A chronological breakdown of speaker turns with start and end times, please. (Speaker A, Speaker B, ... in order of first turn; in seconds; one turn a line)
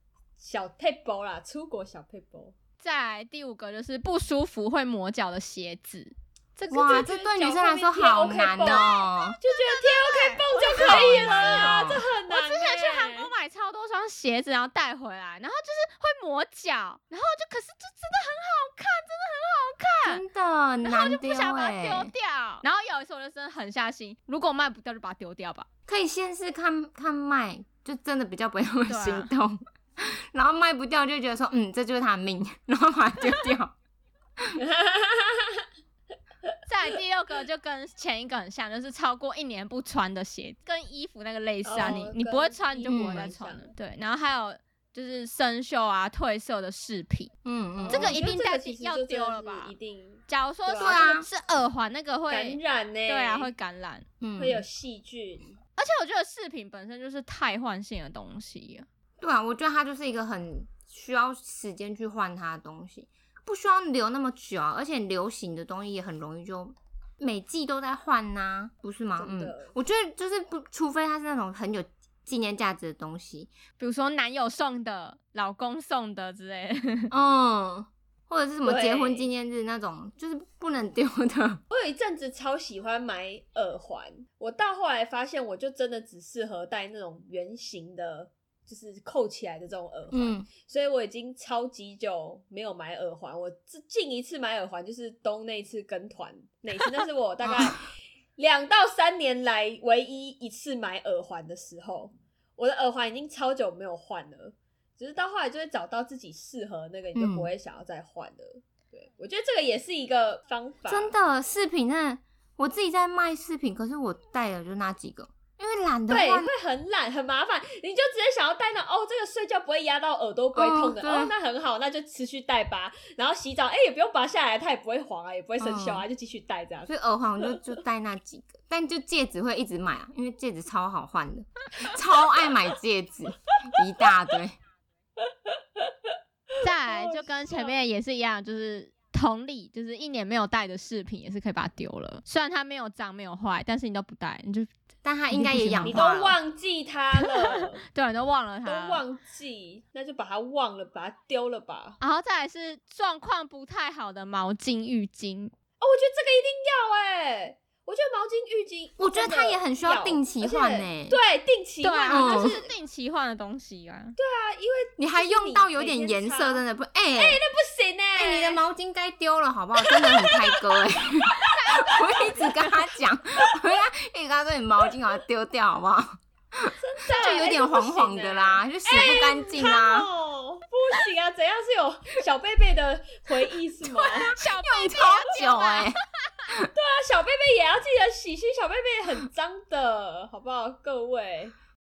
Speaker A: 0.4-2.5
Speaker B: 2.8-7.1
Speaker A: 6.7-13.3
Speaker C: 6.7-9.4
Speaker B: 8.6-20.2
Speaker C: 10.7-12.0
Speaker C: 20.0-22.1
Speaker B: 20.8-25.7
Speaker C: 25.9-33.7
Speaker B: 28.9-29.3
Speaker A: 34.6-35.6
Speaker B: 36.7-47.3
Speaker A: 41.6-43.7
Speaker C: 42.9-43.3
Speaker C: 47.4-48.2
Speaker A: 47.8-51.0
Speaker B: 47.9-49.7
Speaker B: 50.3-54.0
Speaker C: 50.8-51.3
Speaker A: 52.3-53.5
Speaker C: 54.2-54.6
Speaker A: 54.4-55.5
Speaker B: 55.8-58.9
Speaker C: 59.2-73.5
Speaker A: 69.2-69.7
Speaker B: 73.8-77.1
Speaker C: 77.1-81.6
Speaker A: 78.6-79.3
Speaker A: 81.7-111.1
Speaker C: 90.1-90.5
Speaker C: 97.4-97.7
Speaker C: 107.1-107.5
Speaker C: 110.9-116.5
Speaker A: 116.1-126.9
Speaker C: 120.5-121.3
Speaker C: 125.6-126.1
Speaker C: 126.8-134.6
Speaker A: 135.5-135.8
Speaker B: 136.6-144.7
Speaker A: 136.7-137.7
Speaker C: 145.0-146.4
Speaker B: 145.3-146.0
Speaker A: 145.8-147.8
Speaker B: 147.2-149.0
Speaker A: 148.6-152.0
Speaker B: 152.0-155.5
Speaker A: 155.8-162.7
Speaker C: 159.0-161.2
Speaker B: 161.8-164.2
Speaker C: 162.1-162.6
Speaker A: 164.2-166.6
Speaker C: 165.0-167.4
Speaker A: 167.2-168.6
Speaker C: 168.2-180.1
Speaker A: 169.8-170.8
Speaker A: 171.3-172.7
Speaker B: 171.6-172.6
Speaker A: 176.8-184.3
Speaker B: 177.1-177.5
Speaker B: 184.1-186.0
Speaker C: 184.1-186.7
Speaker A: 186.7-191.5